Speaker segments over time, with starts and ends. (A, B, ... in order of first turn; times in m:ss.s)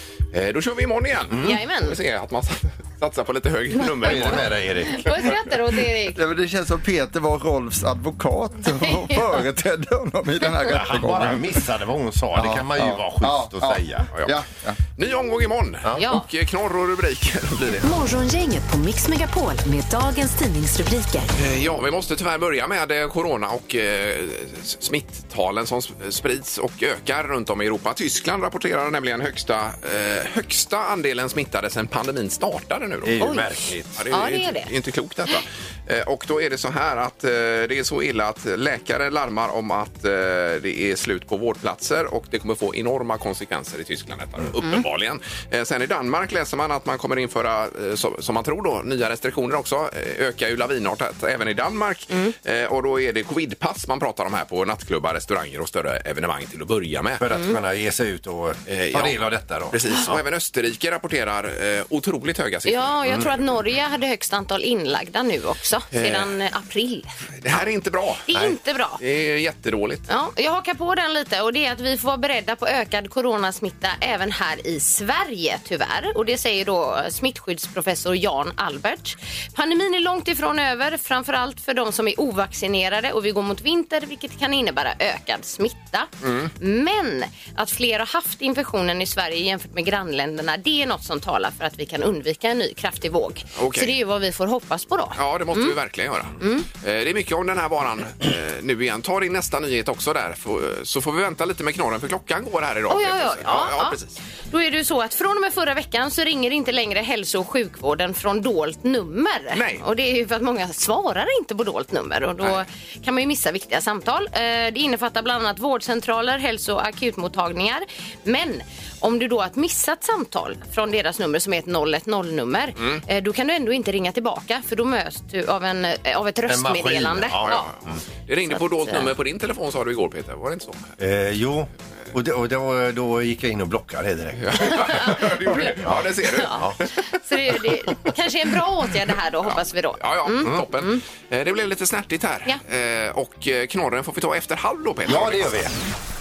0:00.3-0:04.6 A
0:01.3-0:01.6 B
0:01.4-0:02.0 C
0:04.0-0:06.2 C
0:04.0-0:05.3 B
0:06.1-0:11.6 D
0:08.8-0:09.2 C
0:10.7-0:14.1 B
0:12.3-0:14.8 D
0:15.0-0:17.9 A
0:16.0-0:16.2 C
0:17.8-0:21.3 E
0:21.3-0:33.2 A
0:33.0-0:34.0 B
0:33.2-0:33.5 C
0:34.0-0:57.2 A
0:34.1-0:34.7 C
0:57.2-1:00.2 B
0:58.7-0:59.2 A
0:59.7-1:03.2 A
1:02.6-1:07.1 C
1:05.9-1:06.3 A
1:07.4-1:08.3 A
1:08.3-1:09.0 C
1:09.0-1:10.1 A
1:10.1-1:35.7 C
1:26.2-1:26.5 A
1:33.6-1:34.0 A
1:35.2-1:44.1 A
1:36.4-1:36.6 C
1:42.9-1:44.0 C
1:44.5-2:07.7 C
1:49.5-1:49.8 A
2:06.4-2:08.0 B
2:07.4-2:07.7 A
2:08.3-2:10.9 A
2:08.8-2:09.1 C
2:11.0-2:16.8 B
2:14.4-2:16.9 A
2:16.3-2:21.0 C
2:19.5-2:25.6 A
2:25.0-2:25.7 B